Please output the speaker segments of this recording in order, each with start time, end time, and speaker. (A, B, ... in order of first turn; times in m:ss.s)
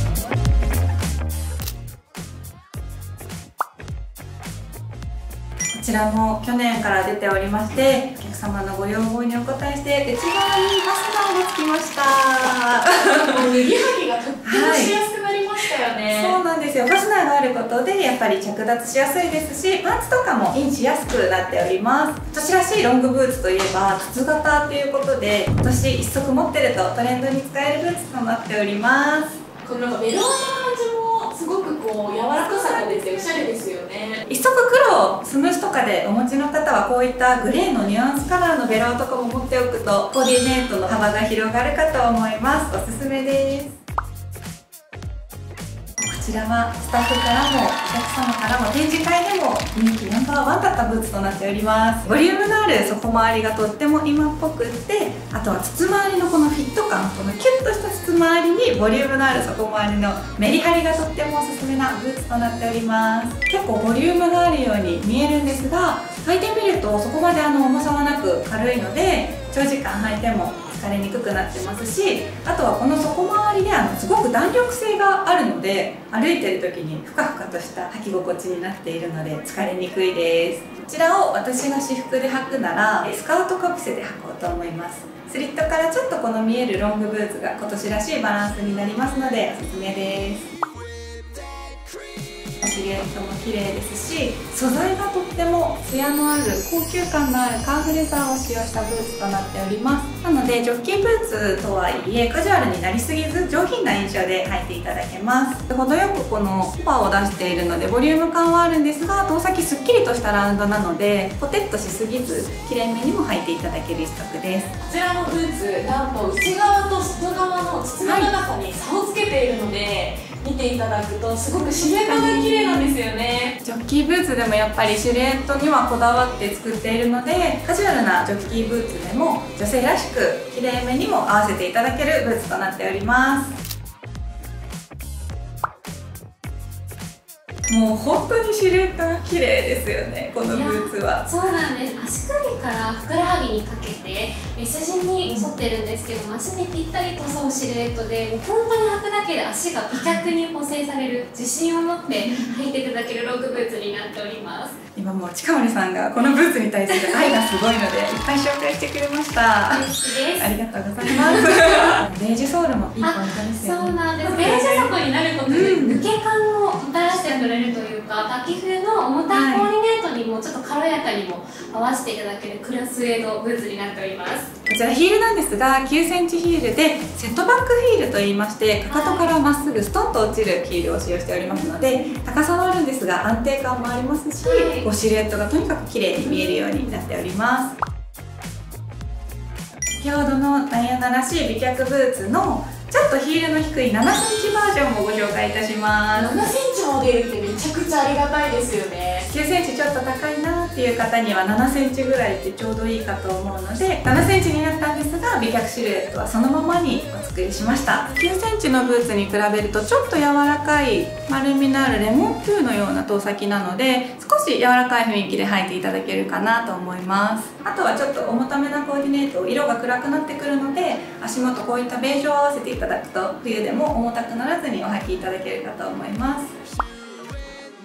0:05.7-0:13.4 A
0:13.0-0:16.4 B
0:14.4-0:15.0 A
0:16.1-0:29.4 A
0:29.6-0:34.2 B
0:32.3-0:33.0 A
0:34.3-0:43.8 A
0:46.0-1:30.5 A
1:32.6-1:54.7 A
1:54.8-2:03.5 B
1:58.0-1:58.3 A
2:02.0-2:02.9 A
2:03.6-2:13.5 A
2:17.7-2:21.3 A
2:20.5-2:34.8 C
2:25.2-2:25.5 A
2:29.9-2:30.3 A
2:32.2-2:32.5 A
2:35.0-2:44.9 A
2:36.9-2:37.2 C
2:39.7-2:41.9 C
2:43.0-2:54.5 C
2:45.4-2:46.1 A
2:49.3-2:49.7 A
2:54.7-3:07.7 A
2:58.9-2:59.2 C
3:04.4-3:04.9 C
3:10.0-3:16.4 A
3:16.1-3:19.3 B
3:19.3-3:46.5 A